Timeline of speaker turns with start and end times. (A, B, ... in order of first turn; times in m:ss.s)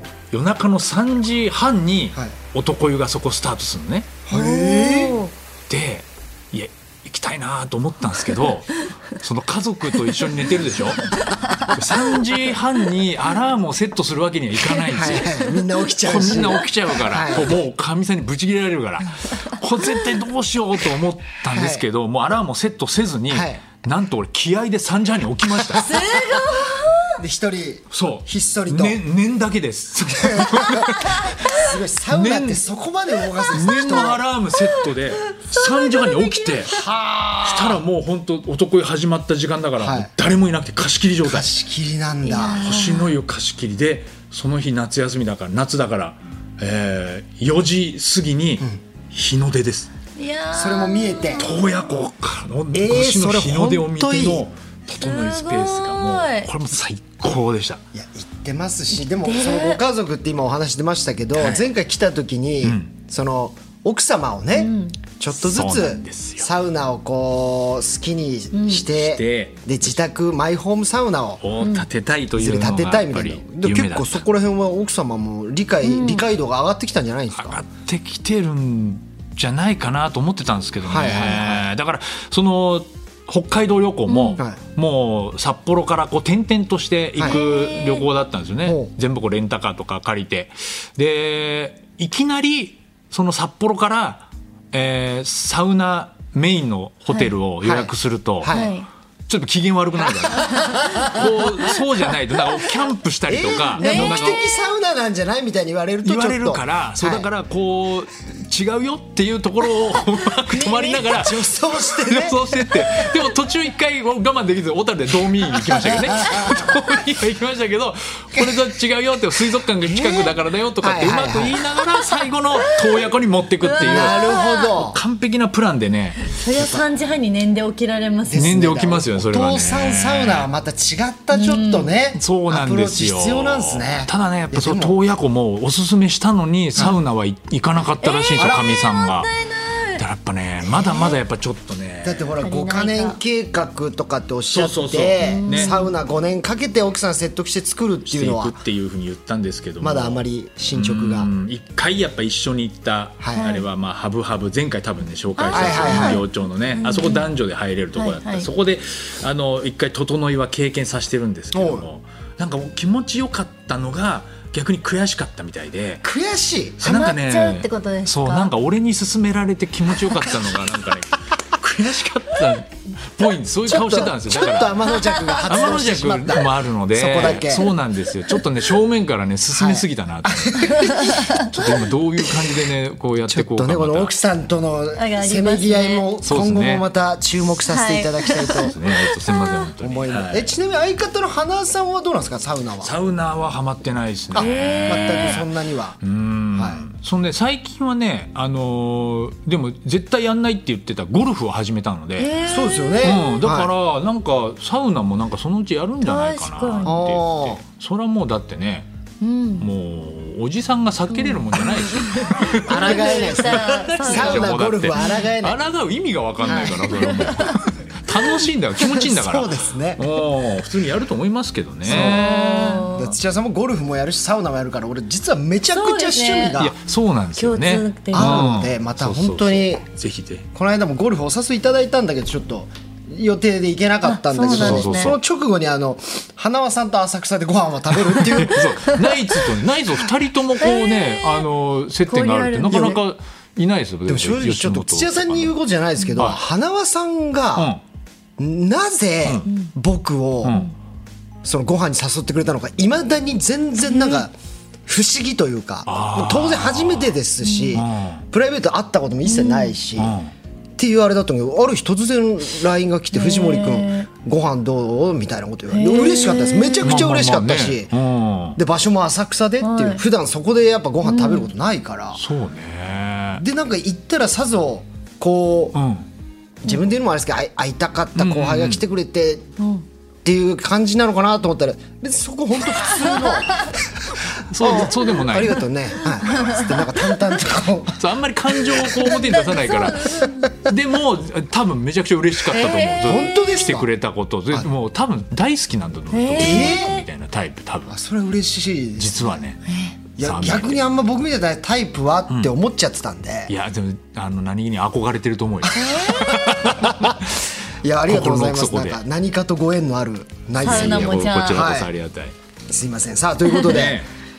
0:00.3-0:04.2 A
0:04.3-0:05.2 B
0:04.3-0:05.3 C
0:05.7-0:25.9 A
0:11.2-0:11.7 C
0:14.9-0:17.6 B
0:21.5-0:21.8 B
0:23.3-0:23.6 B
0:25.6-0:29.0 B
0:25.8-0:27.2 C
0:27.9-0:31.4 A
0:30.2-0:34.2 B
0:30.7-0:31.6 C
0:32.1-0:32.6 A
0:33.5-0:36.8 A
0:33.6-0:36.7 C
0:36.7-0:37.8 B
0:37.4-0:41.5 A
0:39.8-0:40.1 B
0:41.2-0:42.6 B
0:42.2-0:43.1 C
0:42.6-0:49.9 A
0:50.2-0:51.7 C
0:50.5-0:51.5 B
0:51.4-0:57.8 A
0:52.7-0:54.5 B
0:54.9-0:56.5 C
0:57.9-1:11.4 B
0:59.1-0:59.8 C
1:01.4-1:01.7 A
1:02.6-1:02.9 A
1:04.6-1:05.0 C
1:05.3-1:06.5 A
1:08.5-1:08.9 C
1:08.9-1:09.9 A
1:11.4-1:14.2 A
1:11.6-1:11.9 C
1:12.4-1:17.6 B
1:15.8-1:16.2 C
1:17.3-1:38.6 A
1:20.8-1:21.7 B
1:24.1-1:24.4 C
1:27.2-1:28.1 C
1:28.6-1:28.9 B
1:37.6-1:38.7 B
1:38.5-1:38.9 C
1:39.3-1:44.4 A
1:40.2-1:41.8 B
1:43.3-1:47.3 B
1:43.8-1:44.5 C
1:46.0-2:04.2 A
1:50.5-1:51.1 C
1:51.0-1:52.6 B
1:55.6-1:56.8 B
1:59.8-2:01.7 B
2:02.6-2:03.0 C
2:03.6-2:04.8 C
2:03.8-2:05.0 B
2:04.7-2:06.3 A
2:06.3-2:08.5 C
2:08.3-2:15.0 B
2:08.4-2:10.5 A
2:11.3-2:11.9 C
2:12.2-2:19.3 A
2:18.0-2:20.0 C
2:18.4-2:18.7 B
2:20.0-2:22.3 A
2:20.6-2:21.2 B
2:22.0-2:28.6 B
2:22.4-2:23.2 C
2:24.5-2:25.8 A
2:25.2-2:25.9 C
2:28.1-2:46.0 A
2:29.8-2:31.3 B
2:33.2-2:33.5 B
2:33.4-2:33.6 C
2:35.4-2:37.3 C
2:35.5-2:36.3 B
2:38.0-2:38.5 C
2:41.5-2:41.9 B
2:46.0-2:46.8 B
2:46.8-3:04.2 A
2:46.8-2:48.5 C
2:53.7-2:57.7 B
2:55.1-2:55.4 C
2:59.6-3:02.6 B
3:00.6-3:01.5 C
3:03.3-3:08.8 B
3:05.0-3:06.1 C
3:06.2-3:06.9 A
3:07.7-3:09.7 C
3:08.6-3:10.5 A
3:09.8-3:12.9 B
3:12.8-3:15.5 A
3:14.3-3:16.0 B
3:14.4-3:15.4 C
3:16.0-3:22.3 A
3:16.6-3:16.8 B
3:22.2-3:23.2 C
3:22.5-3:23.7 B
3:23.0-3:28.9 A
3:26.0-3:27.0 C
3:26.8-3:27.6 B
3:29.2-3:29.7 C
3:29.6-3:42.9 A
3:31.1-3:35.2 C
3:32.6-3:35.6 B
3:36.4-3:37.4 B
3:36.5-3:37.6 C
3:38.8-3:40.0 B
3:41.8-3:46.8 B
3:41.9-3:43.2 C
3:45.7-3:46.6 C
3:46.6-3:50.5 A
3:47.4-3:48.4 C
3:48.1-3:49.8 B
3:50.6-3:58.8 B
3:54.0-3:55.1 C
3:54.5-3:55.2 A
3:58.0-4:05.5 A
4:00.6-4:01.5 C
4:02.1-4:03.0 C
4:02.7-4:03.0 B
4:04.1-4:07.7 B
4:07.6-4:07.8 A
4:08.4-4:10.6 B
4:10.4-4:10.7 A
4:11.4-4:14.3 B
4:13.9-4:14.2 C
4:14.9-4:20.2 B
4:15.9-4:17.2 A
4:17.4-4:17.8 C
4:17.7-4:18.2 A
4:19.3-4:19.8 C
4:20.0-4:20.3 A
4:20.8-4:27.9 B
4:23.1-4:24.1 C
4:25.7-4:27.0 C
4:26.8-4:28.6 A
4:28.6-4:32.2 B
4:29.6-4:30.0 C
4:31.0-4:31.5 C
4:32.2-4:33.4 A
4:33.4-4:35.8 B
4:35.8-4:36.1 A
4:36.6-4:39.5 B
4:38.2-4:38.8 A
4:39.6-4:39.8 C
4:40.2-4:48.0 B
4:43.0-4:43.5 C
4:44.5-4:45.7 A
4:46.2-4:47.2 C
4:48.0-4:58.0 A
4:49.1-4:50.5 C
4:52.5-4:53.3 C
4:53.0-4:53.9 B
4:56.1-4:57.0 C
4:56.4-4:57.0 B
4:57.9-4:59.4 B
4:59.0-4:59.6 A
4:59.7-5:00.0 C
5:00.2-5:00.8 A
5:00.2-5:03.5 B
5:03.5-5:07.5 A
5:05.7-5:07.2 B
5:05.8-5:06.4 C
5:07.8-5:11.9 B
5:08.1-5:09.0 A
5:10.6-5:11.6 C
5:10.6-5:12.3 A
5:12.7-5:14.0 B
5:13.6-5:14.1 A